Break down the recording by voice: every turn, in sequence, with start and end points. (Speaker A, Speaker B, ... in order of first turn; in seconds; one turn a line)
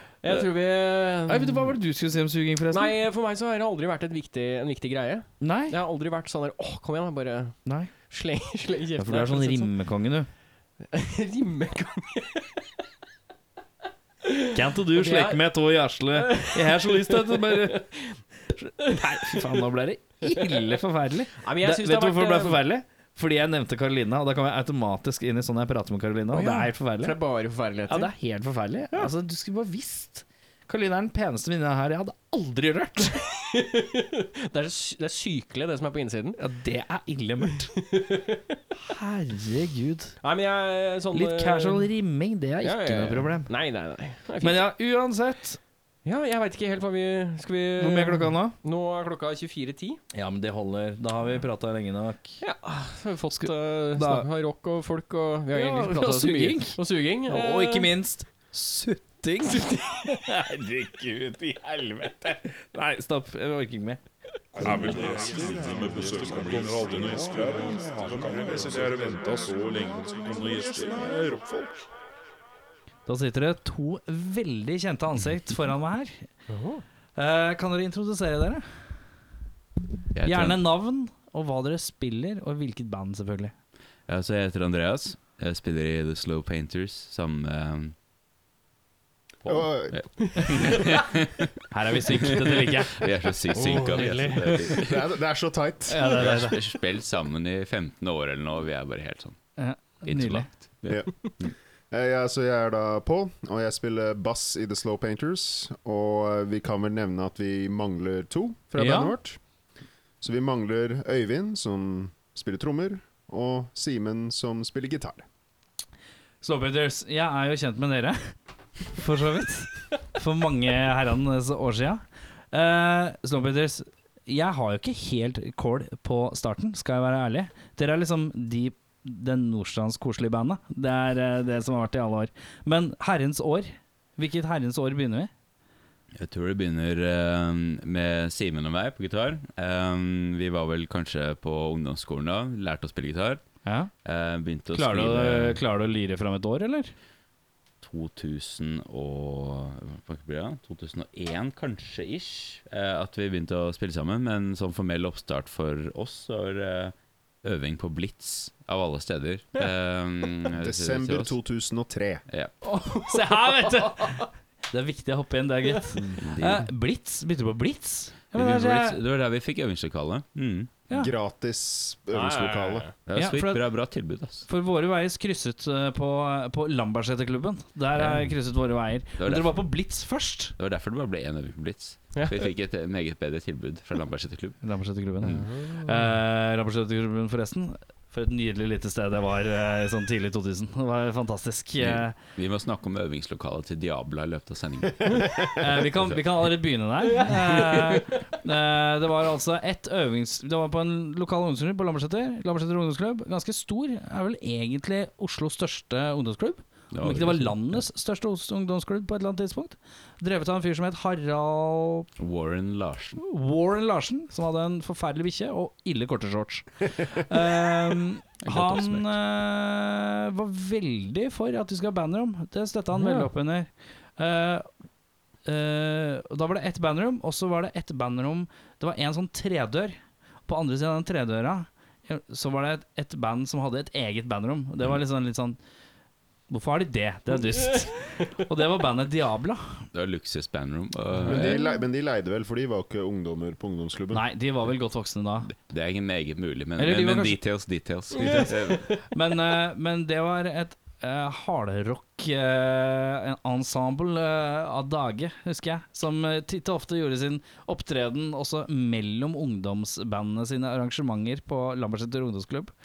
Speaker A: 0.2-1.7
Speaker B: 1.2-2.9
Speaker A: 2.7-7.5
Speaker B: 5.4-5.8
Speaker B: 7.7-7.9
Speaker A: 8.1-9.7
Speaker B: 9.0-10.3
Speaker A: 10.9-12.7
Speaker A: 14.2-15.4
Speaker B: 14.5-17.9
Speaker A: 16.1-18.2
Speaker B: 18.5-27.2
Speaker A: 18.8-19.4
Speaker A: 20.3-20.6
Speaker A: 21.4-22.6
Speaker A: 26.3-28.1
Speaker B: 27.9-33.2
Speaker A: 33.1-36.4
Speaker B: 36.4-37.7
Speaker A: 37.7-38.6
Speaker B: 38.8-40.1
Speaker A: 40.2-41.9
Speaker B: 41.1-43.5
Speaker A: 42.6-44.6
Speaker B: 44.4-45.6
Speaker A: 46.0-50.0
Speaker B: 47.8-48.5
Speaker B: 50.1-52.4
Speaker A: 52.4-57.9
Speaker B: 53.4-54.3
Speaker B: 55.5-64.0
Speaker A: 59.4-60.1
Speaker B: 64.6-65.1
Speaker C: 64.6-71.8
Speaker B: 73.0-76.3
Speaker A: 76.5-76.8
Speaker B: 77.2-78.6
Speaker D: 80.1-80.6
Speaker B: 80.2-83.5
Speaker D: 84.1-87.9
Speaker D: 89.4-95.0
Speaker E: 89.5-90.7
Speaker A: 90.2-90.7
Speaker B: 91.7-93.1
Speaker A: 93.5-94.8
Speaker E: 94.7-96.5
Speaker B: 95.9-96.6
Speaker D: 96.0-99.4
Speaker B: 99.6-100.5
Speaker D: 100.0-101.5
Speaker E: 100.9-101.3
Speaker E: 101.9-109.4
Speaker B: 108.8-109.2
Speaker E: 110.2-115.2
Speaker B: 116.4-118.3
Speaker B: 118.9-135.3
Speaker D: 136.1-143.4
Speaker B: 143.6-143.9
Speaker D: 144.0-145.6
Speaker B: 144.7-146.9
Speaker D: 147.8-161.3
Speaker E: 160.6-162.2
Speaker D: 162.3-162.6
Speaker B: 162.7-169.0
Speaker A: 162.9-164.2
Speaker D: 165.9-166.7
Speaker D: 168.3-170.9
Speaker E: 170.9-172.9
Speaker A: 172.1-172.9
Speaker D: 173.0-174.5
Speaker B: 173.1-173.7
Speaker B: 174.5-180.5
Speaker D: 177.9-178.3
Speaker D: 179.2-179.6
Speaker D: 180.6-184.6
Speaker A: 182.1-182.4
Speaker B: 184.6-192.1
Speaker D: 185.2-185.5
Speaker A: 185.3-185.7
Speaker D: 191.8-196.5
Speaker B: 195.6-212.1
Speaker A: 197.1-198.0
Speaker D: 206.9-207.8
Speaker D: 212.2-213.2
Speaker B: 213.2-224.7
Speaker D: 218.4-219.2
Speaker B: 225.4-235.6
Speaker B: 236.5-239.8
Speaker D: 239.9-241.7
Speaker E: 241.2-244.2
Speaker B: 241.2-241.6
Speaker B: 244.1-245.5
Speaker D: 245.5-249.0
Speaker B: 246.8-247.4
Speaker A: 248.1-249.0
Speaker B: 248.2-262.7